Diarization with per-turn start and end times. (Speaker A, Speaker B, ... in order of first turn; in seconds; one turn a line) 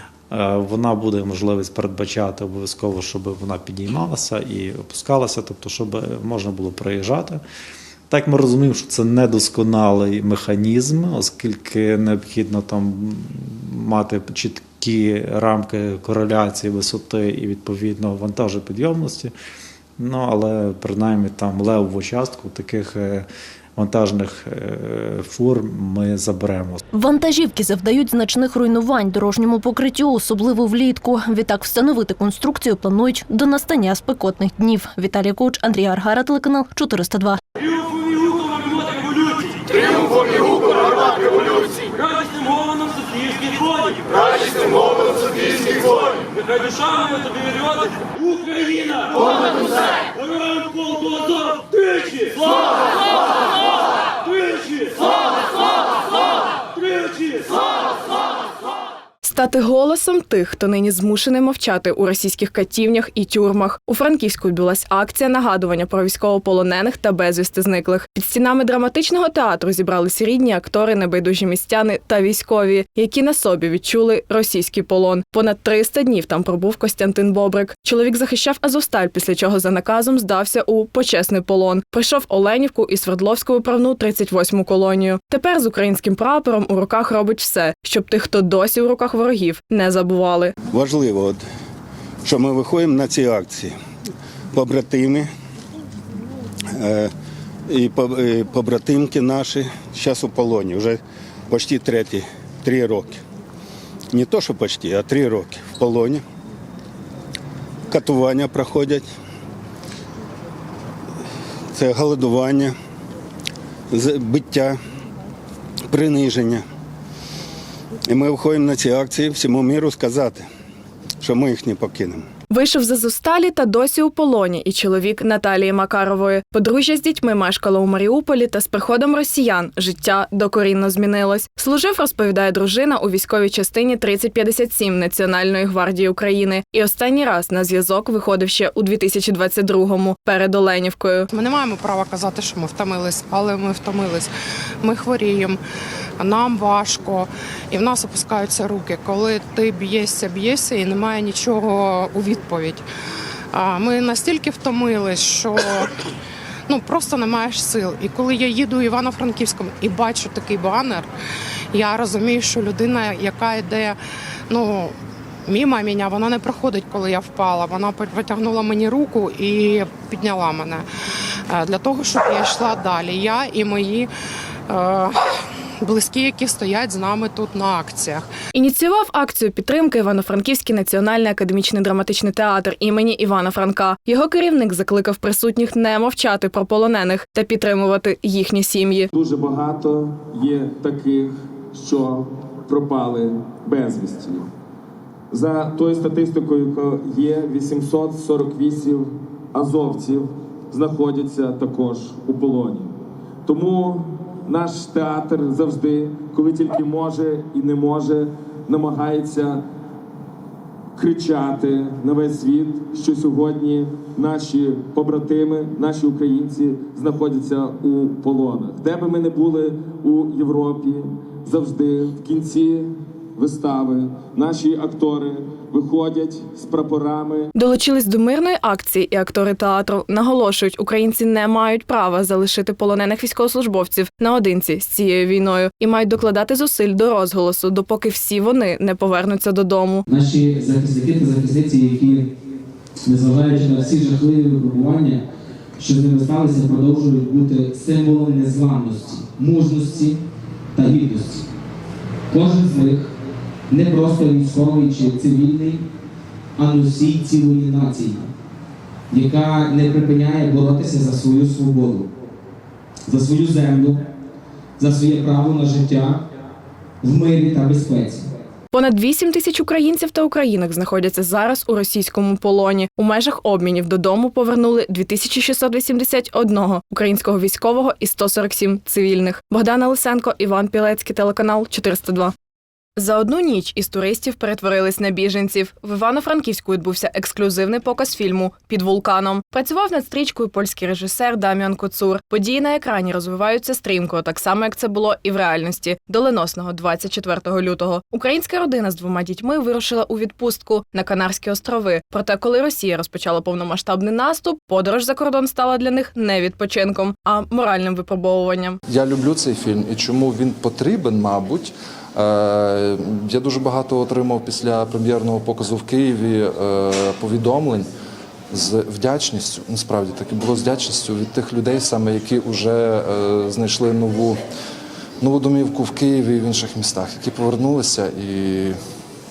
Speaker A: 0.3-7.4
Speaker A: 8.1-19.3
Speaker A: 20.0-26.8
Speaker B: 26.9-37.4
Speaker C: 59.2-90.5
Speaker D: 90.7-91.4
Speaker D: 92.2-93.7
Speaker D: 94.5-95.3
Speaker D: 96.8-97.1
Speaker D: 97.7-103.2
Speaker D: 104.1-106.2
Speaker D: 107.9-109.0
Speaker D: 111.7-112.7
Speaker D: 113.9-114.8
Speaker D: 115.9-116.6
Speaker D: 118.1-120.5
Speaker D: 121.2-122.2
Speaker C: 122.5-141.3
Speaker E: 141.3-144.3
Speaker E: 144.8-145.6
Speaker E: 146.2-152.8
Speaker E: 153.5-155.9
Speaker E: 156.7-161.1
Speaker E: 161.7-164.0
Speaker E: 164.5-164.9
Speaker E: 165.4-170.8
Speaker E: 171.5-174.1
Speaker E: 174.7-175.2
Speaker E: 175.8-178.3
Speaker C: 178.5-189.1
Speaker F: 189.1-194.5
Speaker F: 195.3-202.9
Speaker F: 203.4-209.6
Speaker F: 210.9-227.5
Speaker C: 227.6-240.0
Speaker G: 240.1-242.3
Speaker G: 243.0-245.2
Speaker G: 245.8-250.2
Speaker G: 250.7-251.4
Speaker G: 252.3-253.1
Speaker G: 253.7-255.8
Speaker G: 256.6-258.2
Speaker G: 259.1-262.1
Speaker G: 263.1-264.0
Speaker G: 264.8-266.2
Speaker G: 267.0-268.2
Speaker C: 268.7-282.3
Speaker C: 283.0-308.8
Speaker H: 308.9-317.9
Speaker H: 318.5-324.4
Speaker H: 325.2-328.8